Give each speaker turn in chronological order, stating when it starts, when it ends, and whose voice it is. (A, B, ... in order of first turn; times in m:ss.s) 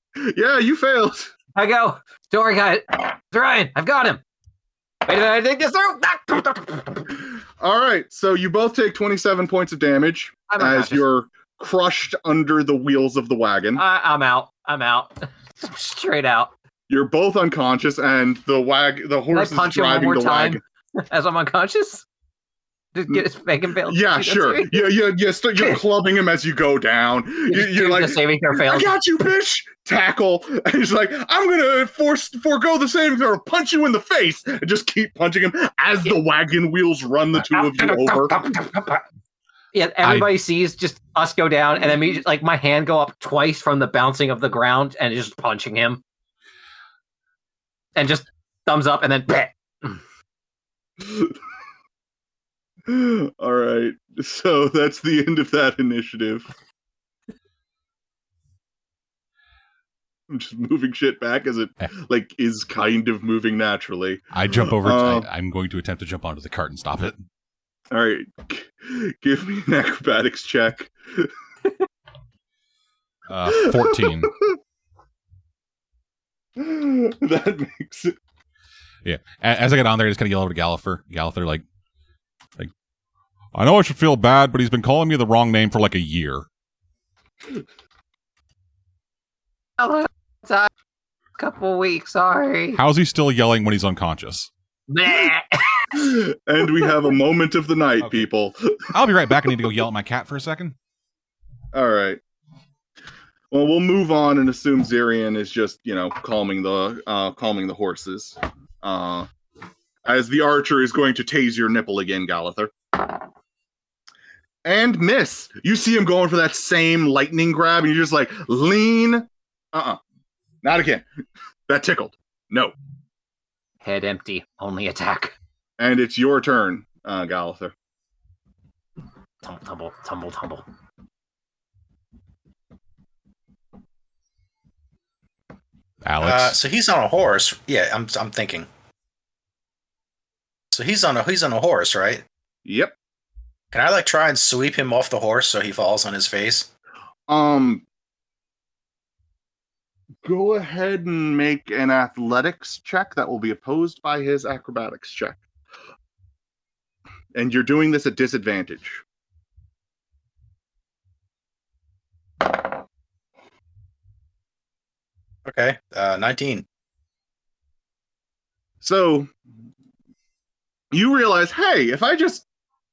0:00.2-0:01.3 A
0:01.5-0:04.2 B
0:05.0-0:07.1 B
0:07.6-0:13.8 A
0:10.5-0:11.0 B
0:13.8-0:16.5 B
0:16.9-0:20.6 A
0:19.3-0:22.0 B
0:22.9-0:24.9 B
0:23.8-0:38.4 A
0:27.5-0:28.9 B
0:37.4-0:39.0 B
0:39.7-0:46.0 B
0:40.0-0:40.3 C
0:48.0-0:50.0 B
0:51.0-0:51.3 A
0:52.9-0:56.5 A
1:00.3-1:05.3 A
1:04.3-1:07.2 C
1:07.9-1:11.3 A
1:13.3-1:14.3 C
1:13.5-1:14.6 A
1:16.6-1:18.2 A
1:19.0-1:21.6 C
1:23.5-1:26.4 C
1:29.8-1:30.7 B
1:31.4-1:32.8 B
1:32.7-1:34.5 C
1:34.9-1:36.2 B
1:35.9-1:38.8 A
1:38.0-1:38.3 C
1:38.9-1:40.7 C
1:41.7-1:42.2 A
1:43.5-1:49.3 A
1:50.0-1:52.7 A
1:54.6-2:00.0 A
2:00.6-2:01.0 A
2:01.7-2:02.7 A
2:03.8-2:05.3 B
2:05.8-2:07.7 A
2:09.4-2:10.6 B
2:16.0-2:16.6 C
2:16.2-2:18.7 D
2:20.7-2:22.2 D
2:22.6-2:22.9 A
2:23.7-2:26.7 D
2:27.3-2:27.8 A
2:30.2-2:35.4 A
2:37.3-2:39.0 A
2:45.4-2:46.6 D
2:48.8-2:49.3 A
2:50.9-2:52.4 A